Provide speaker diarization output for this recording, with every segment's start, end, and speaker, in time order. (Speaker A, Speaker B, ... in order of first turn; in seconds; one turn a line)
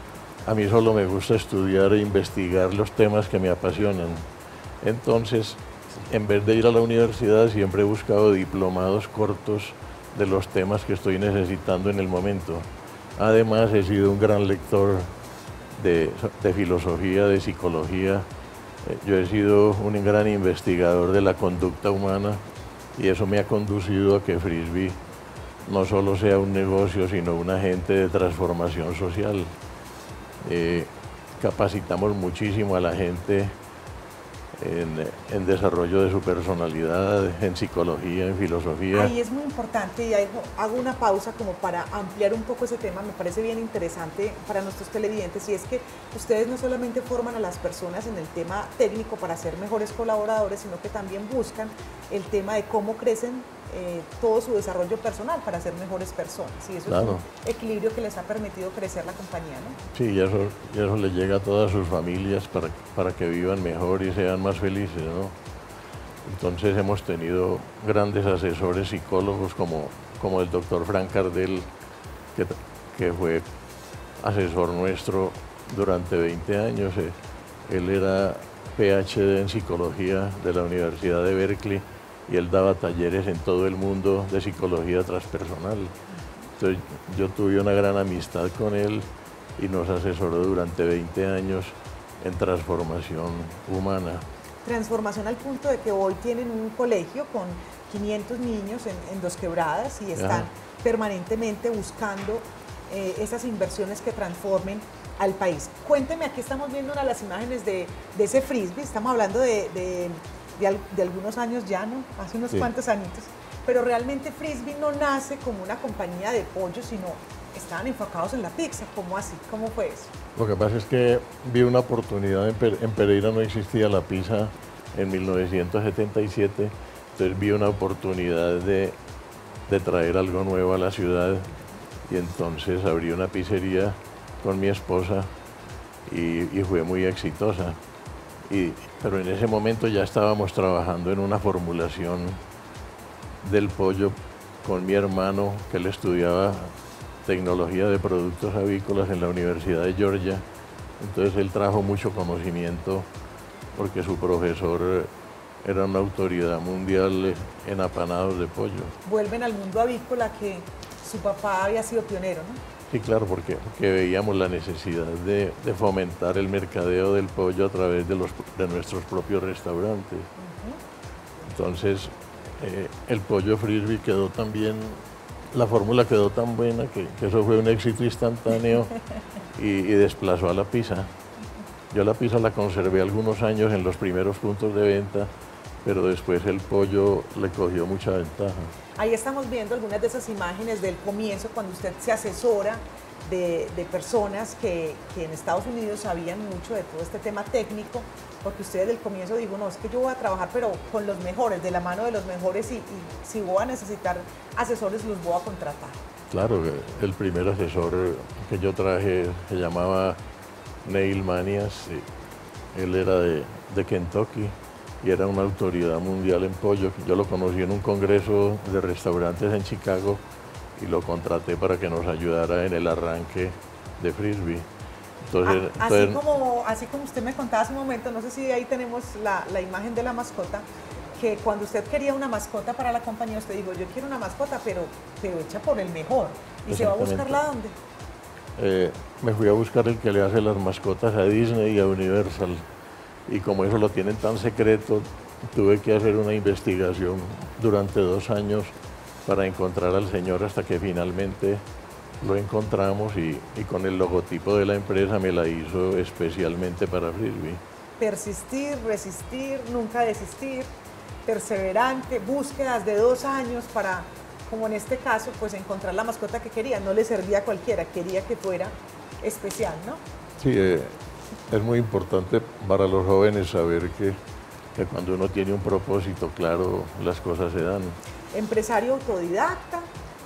Speaker A: 0.4-4.2
Speaker A: 4.8-12.6
Speaker A: 13.2-15.1
Speaker A: 15.7-18.2
Speaker A: 18.8-22.4
Speaker A: 22.9-25.0
Speaker A: 25.6-29.5
Speaker A: 30.4-33.5
Speaker A: 34.5-39.1
Speaker B: 38.9-59.8
Speaker A: 56.9-57.2
Speaker A: 59.9-65.3
Speaker A: 66.2-71.7
Speaker A: 72.3-73.5
Speaker A: 74.2-77.1
Speaker A: 77.7-85.9
Speaker A: 86.6-89.0
Speaker A: 89.6-94.2
Speaker B: 94.6-120.1
Speaker A: 100.2-100.5
Speaker A: 120.3-128.9
Speaker A: 129.7-131.5
Speaker A: 132.1-135.3
Speaker A: 136.1-137.8
Speaker A: 138.5-142.4
Speaker A: 143.4-146.7
Speaker A: 147.2-150.4
Speaker A: 151.0-153.0
Speaker A: 153.8-155.1
Speaker A: 155.6-158.9
Speaker B: 159.0-162.6
Speaker A: 162.9-170.3
Speaker B: 170.4-170.8
Speaker A: 171.5-175.0
Speaker A: 175.5-178.9
Speaker A: 179.5-181.1
Speaker A: 181.9-185.3
Speaker A: 185.8-188.7
Speaker B: 189.0-206.0
Speaker A: 206.3-210.2
Speaker A: 210.8-212.0
Speaker A: 212.7-220.2
Speaker A: 220.8-224.6
Speaker A: 225.3-226.2
Speaker B: 225.4-230.6
Speaker B: 231.2-237.7
Speaker A: 236.7-237.4
Speaker A: 238.6-242.6
Speaker A: 243.3-248.7
Speaker A: 249.2-251.6
Speaker A: 252.2-257.6
Speaker B: 258.0-260.7
Speaker B: 261.2-270.0
Speaker A: 270.4-270.9
Speaker A: 271.5-274.2
Speaker A: 274.7-277.9
Speaker B: 278.3-279.9